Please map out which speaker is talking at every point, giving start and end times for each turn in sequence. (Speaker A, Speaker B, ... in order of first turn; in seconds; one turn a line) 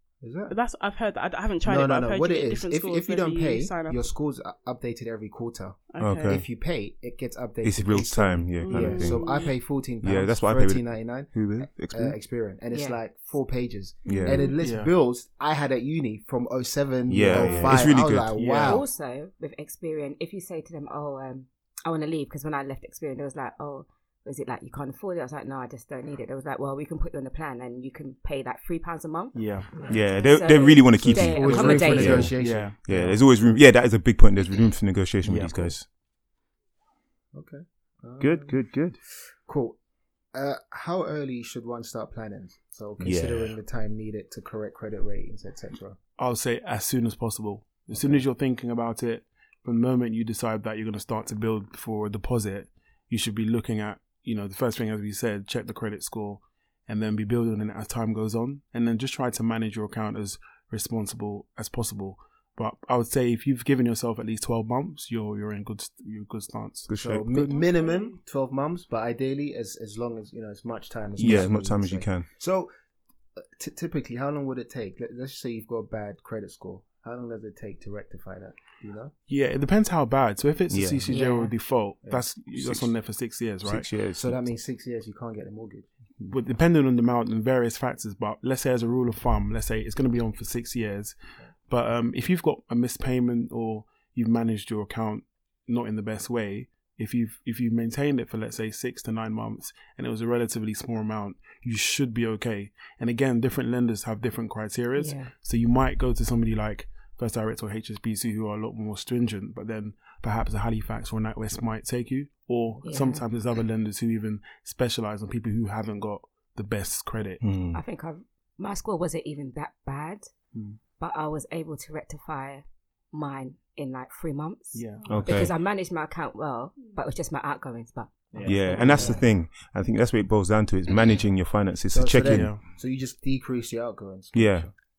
Speaker A: 0.2-0.6
Speaker B: 0.5-4.0
Speaker A: 1.6-18.9
Speaker B: 5.9-6.4
Speaker C: 6.0-6.4
Speaker C: 7.6-9.3
Speaker B: 8.6-9.5
Speaker C: 10.0-12.2
Speaker D: 12.7-13.0
Speaker B: 14.1-14.6
Speaker C: 14.1-14.5
Speaker E: 14.6-14.9
Speaker C: 17.1-18.3
Speaker E: 18.3-18.8
Speaker D: 18.6-32.3
Speaker E: 29.3-29.7
Speaker A: 29.8-30.0
Speaker C: 29.9-35.9
Speaker A: 31.1-32.8
Speaker E: 32.4-33.2
Speaker E: 35.2-35.7
Speaker A: 37.3-38.6
Speaker C: 38.2-39.0
Speaker A: 39.4-39.8
Speaker A: 40.3-46.0
Speaker C: 43.0-43.6
Speaker E: 46.2-66.9
Speaker A: 47.9-48.2
Speaker C: 66.9-67.5
Speaker A: 67.0-72.7
Speaker B: 67.5-68.2
Speaker C: 71.2-72.3
Speaker E: 71.2-71.5
Speaker A: 73.4-79.1
Speaker E: 79.3-83.9
Speaker C: 80.7-81.1
Speaker D: 81.1-81.5
Speaker C: 82.5-82.9
Speaker C: 83.6-84.4
Speaker A: 84.2-85.9
Speaker E: 86.3-91.2
Speaker E: 91.7-117.4
Speaker D: 105.0-105.3
Speaker D: 112.8-113.2
Speaker C: 117.4-117.8
Speaker D: 117.7-120.3
Speaker E: 120.5-120.8
Speaker D: 121.0-129.2
Speaker E: 124.7-125.2
Speaker C: 125.1-125.5
Speaker A: 128.3-129.2
Speaker C: 128.4-132.5
Speaker A: 131.9-134.7
Speaker E: 132.2-132.6
Speaker C: 134.3-134.7